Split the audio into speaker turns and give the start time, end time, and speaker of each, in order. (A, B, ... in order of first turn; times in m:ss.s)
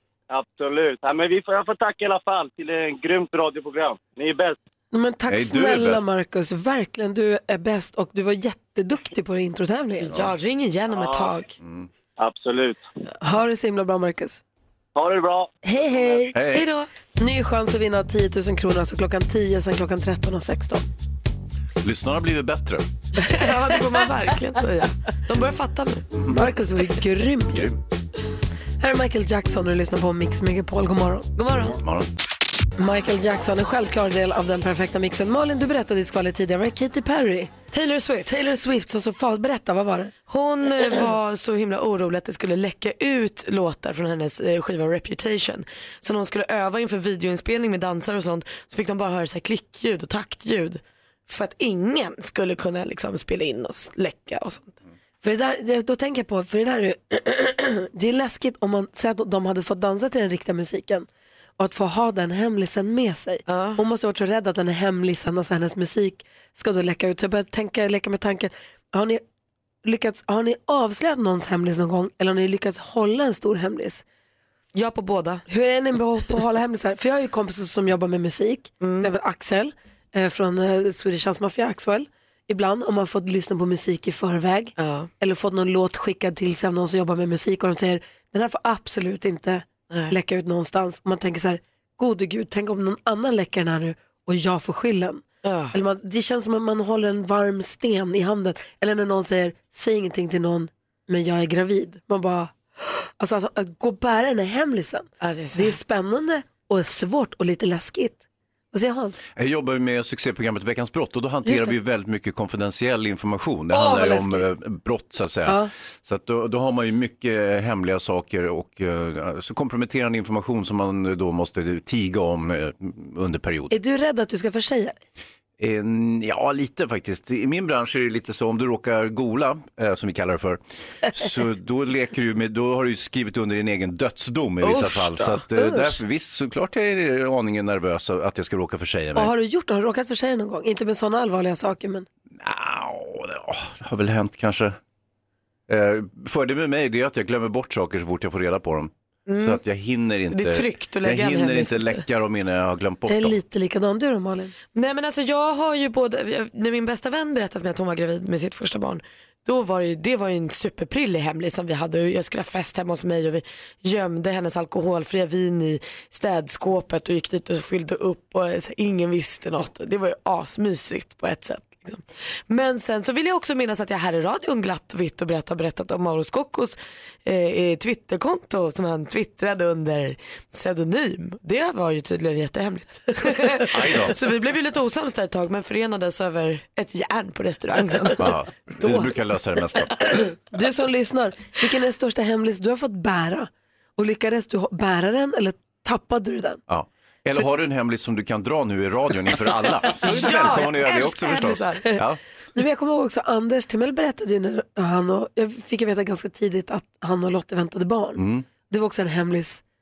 0:00.3-0:04.6 A
0:04.9-0:10.2 B
0:05.3-0:06.0 C
0:10.0-0:11.5 D
0:10.9-0:11.4 A
0:11.6-0:11.9 C
0:12.2-0:12.8 A
0:13.2-0:14.4 B
0:15.0-0:15.5 A
0:15.6-0:16.3 B
0:16.3-0:16.7 C
0:16.5-0:16.9 D
0:17.2-0:20.8 B
0:21.8-0:22.8 C
0:23.2-0:26.1 D
0:26.2-0:26.5 C
0:26.3-0:27.7 B
0:28.8-0:31.3 B
0:31.4-0:31.8 D
0:31.8-0:32.1 C
0:32.8-0:37.5 B
0:37.7-0:38.3 D
0:38.2-0:40.1 B
0:40.3-0:54.8 D
0:55.2-1:01.1 B
1:01.6-1:09.2 B
1:03.5-1:03.8 D
1:09.8-1:14.0 B
1:14.8-1:15.4 D
1:15.5-1:49.2 B
1:18.8-1:19.1 D
1:24.8-1:25.1 D
1:35.4-1:35.8 D
1:45.2-1:45.8 D
1:49.4-2:03.7 C
1:51.5-1:51.8 B
1:53.7-1:54.5 B
2:03.7-2:05.0 B
2:05.6-2:10.6 C
2:11.1-2:19.3 C
2:14.6-2:15.5 D
2:19.2-2:22.1 B
2:22.4-2:24.8 C
2:25.7-2:33.4 C
2:29.3-2:29.6 D
2:30.3-2:32.0 D
2:33.1-2:34.5 B
2:34.8-3:08.2 D
3:03.7-3:04.2 C
3:08.2-3:10.0 C
3:08.8-3:09.1 B
3:10.5-3:16.6 B
3:16.7-3:22.2 C
3:19.9-3:21.9 D
3:22.6-3:29.6 B
3:28.2-3:28.5 C